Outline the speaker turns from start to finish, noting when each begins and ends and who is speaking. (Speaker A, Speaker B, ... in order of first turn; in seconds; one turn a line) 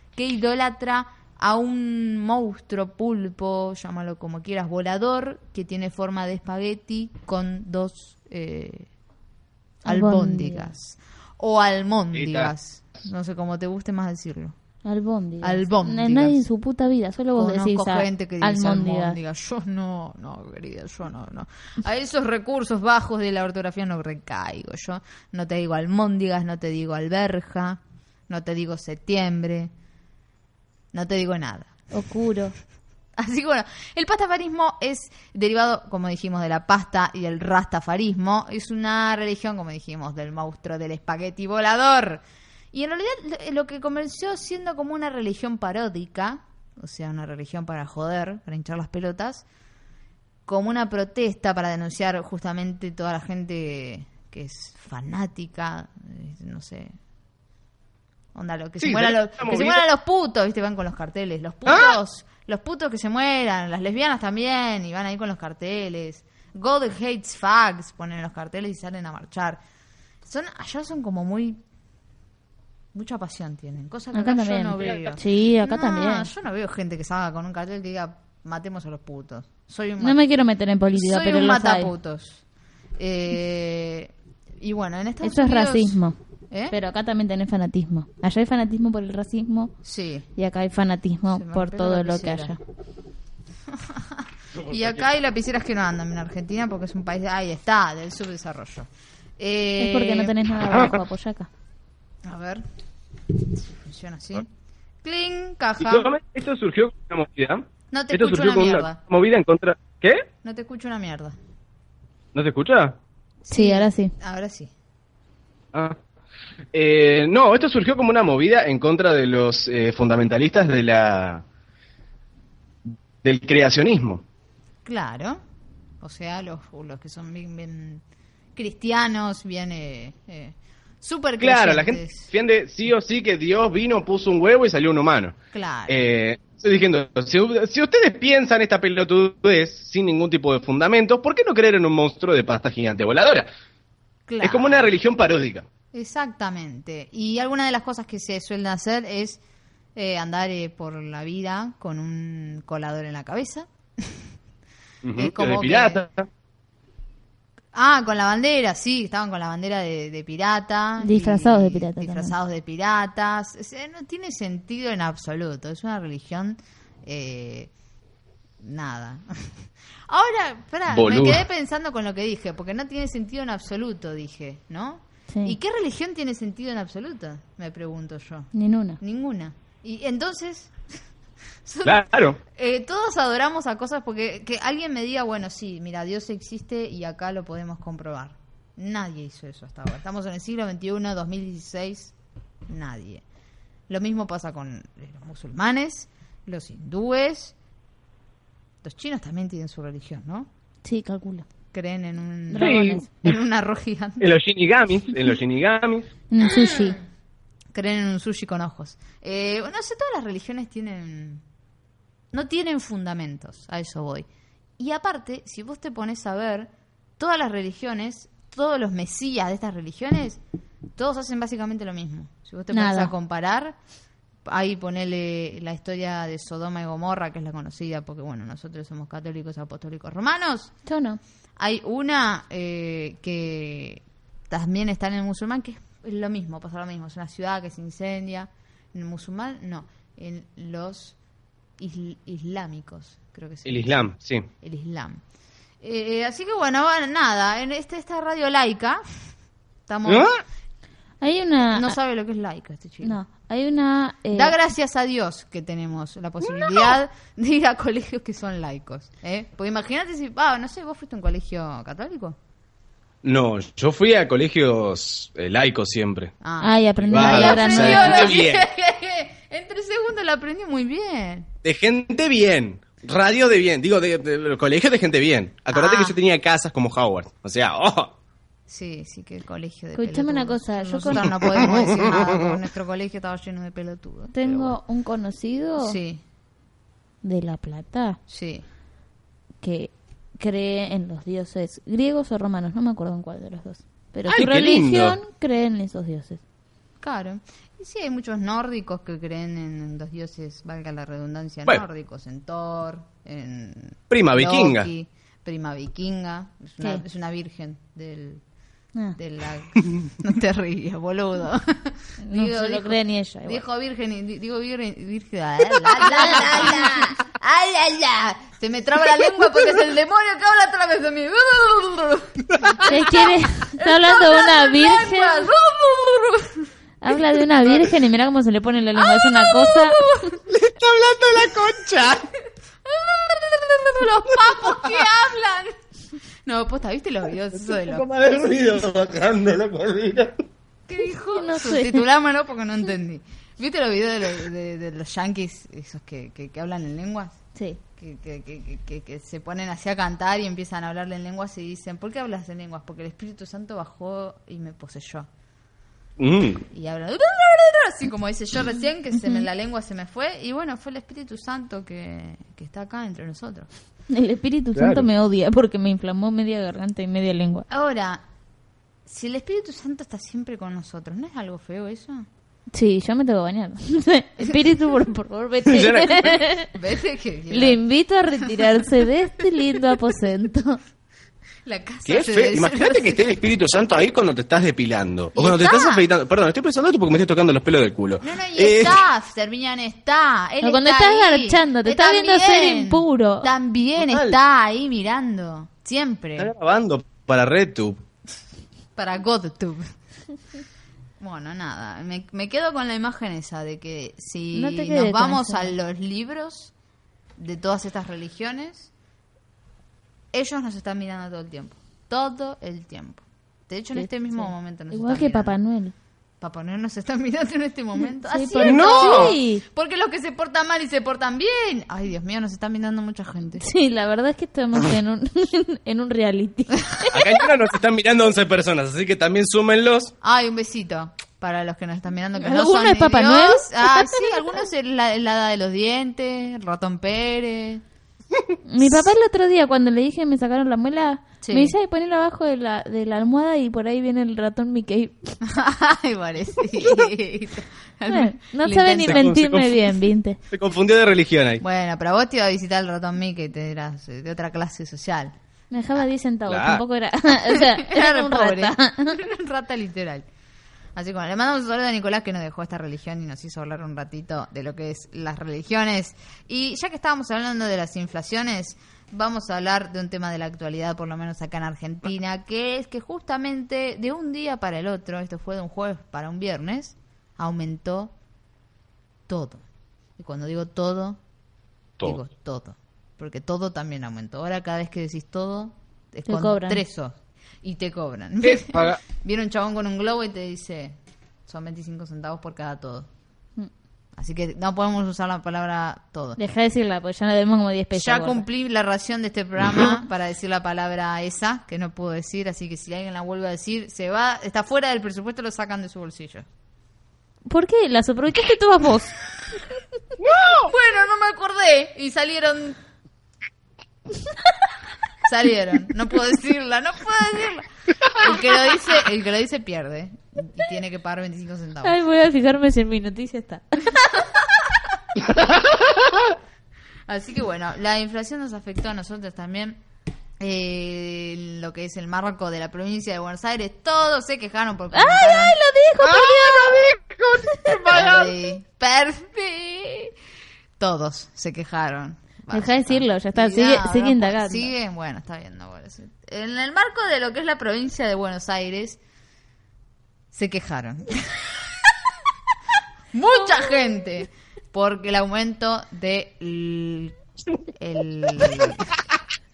Speaker A: 0.1-8.9
Speaker B: 9.8-10.7
Speaker A: 9.9-14.6
Speaker C: 12.2-12.5
Speaker B: 14.8-19.2
Speaker A: 15.4-16.4
Speaker A: 17.4-29.7
Speaker A: 30.9-31.8
Speaker B: 31.9-32.5
Speaker A: 33.2-49.4
Speaker A: 50.5-57.0
Speaker A: 58.3-69.6
Speaker C: 58.8-59.8
Speaker C: 61.7-62.0
Speaker A: 70.2-71.6
Speaker A: 72.9-80.2
Speaker B: 74.1-76.3
Speaker B: 80.0-81.9
Speaker A: 81.0-82.4
Speaker A: 83.0-86.0
Speaker B: 85.2-86.2
Speaker A: 86.5-86.8
Speaker B: 86.7-89.7
Speaker A: 89.8-90.3
Speaker B: 90.4-92.6
Speaker A: 91.3-92.6
Speaker A: 93.7-100.3
Speaker C: 94.7-95.0
Speaker B: 99.8-101.5
Speaker A: 102.2-102.6
Speaker A: 103.5-104.5
Speaker A: 105.0-106.1
Speaker C: 105.8-110.2
Speaker A: 107.9-109.0
Speaker A: 110.4-111.3
Speaker C: 112.3-113.0
Speaker A: 113.4-114.7
Speaker B: 113.5-114.1
Speaker C: 116.7-121.4
Speaker C: 122.9-124.2
Speaker A: 124.8-125.4
Speaker A: 126.0-128.0
Speaker A: 128.6-132.3
Speaker C: 131.4-135.3
Speaker A: 135.5-135.9
Speaker C: 135.9-143.5
Speaker A: 144.3-144.9
Speaker C: 144.4-145.7
Speaker A: 145.9-149.4
Speaker A: 149.9-154.2
Speaker C: 155.0-156.3
Speaker A: 155.2-156.0
Speaker A: 157.7-167.7
Speaker B: 161.0-162.3
Speaker A: 168.6-169.6
Speaker A: 170.1-180.7
Speaker C: 170.9-171.4
Speaker B: 175.3-175.6
Speaker B: 178.5-179.0
Speaker A: 181.7-182.0
Speaker C: 181.8-182.4
Speaker A: 182.6-192.1
Speaker A: 192.7-193.2
Speaker A: 193.9-197.6
Speaker A: 198.8-200.5
Speaker B: 200.8-201.5
Speaker A: 201.7-204.3
Speaker B: 202.5-203.1
Speaker C: 202.6-203.3
Speaker C: 204.2-206.1
Speaker B: 206.3-207.0
Speaker A: 206.5-206.9
Speaker A: 207.7-211.4
Speaker A: 212.3-214.3
Speaker A: 214.8-220.4
Speaker A: 221.0-223.8
Speaker B: 222.7-223.1
Speaker A: 224.4-230.7
Speaker B: 230.9-231.2
Speaker A: 231.6-241.2
Speaker A: 241.8-245.2
Speaker C: 243.7-244.5
Speaker A: 245.8-249.0
Speaker A: 249.9-250.3
Speaker C: 250.1-250.4
Speaker B: 251.2-252.0
Speaker A: 251.7-253.2
Speaker B: 253.0-254.5
Speaker A: 254.3-262.4
Speaker C: 256.4-256.9
Speaker C: 263.2-266.3
Speaker A: 266.4-271.5
Speaker B: 266.6-268.4
Speaker C: 267.1-268.6
Speaker C: 271.6-278.1
Speaker A: 275.7-276.1
Speaker A: 278.7-284.8
Speaker B: 280.0-281.3
Speaker C: 281.6-282.4
Speaker B: 284.3-286.0
Speaker A: 285.8-286.2
Speaker B: 287.2-288.2
Speaker A: 288.3-288.6
Speaker B: 289.6-296.4
Speaker C: 294.3-295.2
Speaker A: 297.0-308.4
Speaker C: 304.1-304.9
Speaker A: 309.2-326.7
Speaker B: 312.2-313.6
Speaker B: 322.8-325.5
Speaker B: 327.0-330.0
Speaker A: 329.0-330.4
Speaker C: 330.5-332.3
Speaker A: 332.9-335.8
Speaker A: 336.4-338.1
Speaker C: 337.5-340.4
Speaker A: 340.9-347.4
Speaker B: 341.3-342.0
Speaker B: 347.6-347.8
Speaker A: 348.0-355.3
Speaker C: 356.2-356.6
Speaker A: 356.7-363.7
Speaker B: 364.1-367.7
Speaker C: 364.8-365.1
Speaker A: 367.7-368.2
Speaker A: 369.1-372.3
Speaker B: 372.7-376.7
Speaker C: 375.7-376.4
Speaker A: 376.8-377.8
Speaker B: 377.5-380.8
Speaker A: 381.7-383.3
Speaker C: 382.1-389.0
Speaker A: 385.4-386.1
Speaker A: 388.2-396.5
Speaker B: 390.6-393.5
Speaker C: 394.0-394.4
Speaker C: 396.4-398.0
Speaker A: 399.0-399.8
Speaker A: 401.2-406.7
Speaker B: 404.5-405.8
Speaker A: 407.4-408.9
Speaker A: 410.3-415.6
Speaker B: 413.9-415.9
Speaker A: 416.4-423.6
Speaker B: 418.0-419.6
Speaker C: 418.6-419.3
Speaker B: 423.6-427.4
Speaker C: 427.1-430.1
Speaker A: 430.2-437.8
Speaker B: 432.4-434.2
Speaker B: 438.7-445.4
Speaker A: 441.4-441.8
Speaker A: 445.4-449.3
Speaker B: 448.1-450.4
Speaker C: 449.0-449.9
Speaker C: 450.5-451.6
Speaker A: 451.6-455.3
Speaker B: 455.7-459.2
Speaker C: 456.5-456.8
Speaker A: 457.6-460.3
Speaker A: 460.9-478.1
Speaker A: 479.3-479.6
Speaker A: 480.2-481.2
Speaker A: 482.0-493.1
Speaker B: 486.3-486.8
Speaker C: 488.4-489.0
Speaker A: 494.2-496.4
Speaker B: 496.4-498.4
Speaker A: 498.0-506.5
Speaker B: 507.5-509.1
Speaker C: 510.2-510.7
Speaker A: 510.6-512.8
Speaker A: 515.2-522.0
Speaker B: 521.8-524.1
Speaker A: 527.1-529.8
Speaker A: 530.4-535.6
Speaker B: 534.9-536.9
Speaker C: 536.0-538.4
Speaker A: 537.9-540.1
Speaker A: 540.8-549.0
Speaker B: 542.5-544.7
Speaker A: 550.3-551.6
Speaker A: 553.1-557.2
Speaker A: 557.8-558.9